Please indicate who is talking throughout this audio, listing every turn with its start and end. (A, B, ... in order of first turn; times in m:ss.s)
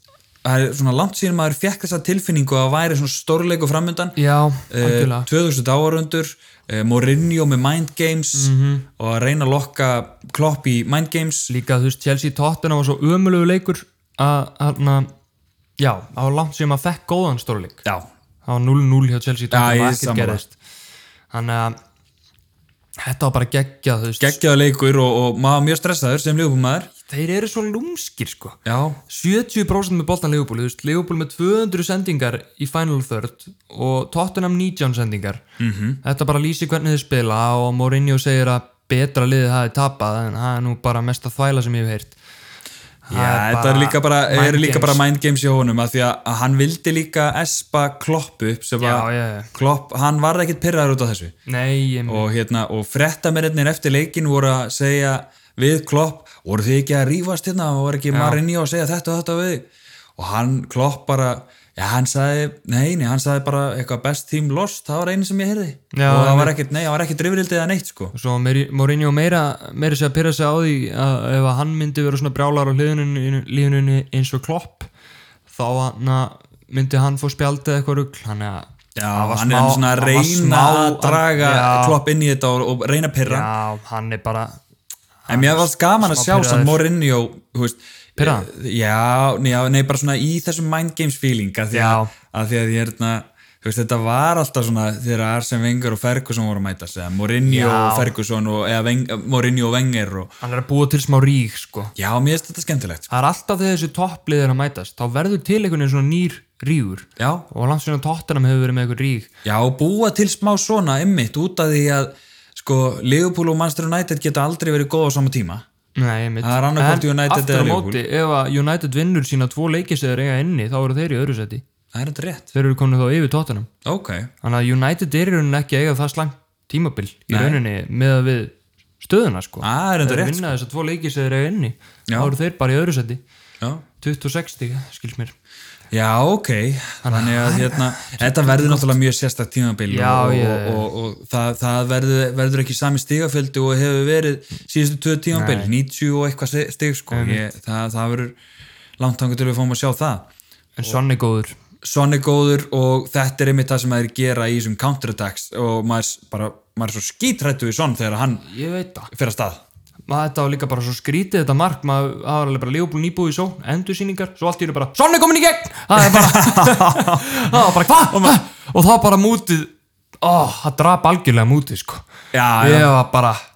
0:00.4-0:04.2 A
0:04.2-0:05.3 B
0:04.7-0:11.5 A
0:08.3-0:08.9 B
0:11.5-0:15.1 B
0:15.8-0:17.8 B
0:18.5-0:20.6 B
0:19.5-0:20.4 A
0:21.3-0:21.8 B
0:23.0-0:24.4 B
0:24.2-0:26.9 A
0:27.0-0:35.4 B
0:28.7-0:29.0 A
0:35.6-0:36.0 A
0:36.0-0:42.2 B
0:43.1-0:45.0 B
0:43.1-0:51.4 A
0:48.8-0:49.5 B
0:51.5-0:52.3 B
0:52.1-1:08.1 A
0:58.1-0:58.4 B
1:05.9-1:06.6 B
1:08.1-1:14.9 B
1:15.5-1:22.0 B
1:19.0-1:23.5 A
1:23.2-1:24.6 B
1:25.2-1:26.8 B
1:25.3-1:40.3 A
1:28.2-1:28.5 B
1:31.7-1:32.1 B
1:37.4-1:38.1 B
1:40.4-1:41.9 B
1:42.0-1:43.1 A
1:43.1-1:49.3 B
1:47.2-1:47.5 A
1:49.4-1:55.6 A
1:56.0-2:01.6 B
1:56.4-1:58.0 A
2:01.9-2:02.5 A
2:02.5-2:03.7 B
2:03.8-2:04.3 A
2:04.4-2:13.2 B
2:07.3-2:07.6 A
2:09.6-2:10.5 A
2:12.1-2:12.3 A
2:13.6-2:13.8 A
2:14.0-2:15.3 B
2:15.9-2:28.4 A
2:17.0-2:19.0 B
2:19.9-2:20.9 B
2:25.3-2:25.7 B
2:27.1-2:27.4 B
2:29.0-2:30.3 A
2:30.8-2:31.6 B
2:31.8-2:38.5 A
2:38.5-2:39.1 B
2:39.1-2:39.6 A
2:40.1-2:52.0 B
2:46.0-2:48.4 A
2:52.3-2:52.9 A
2:52.6-2:53.4 B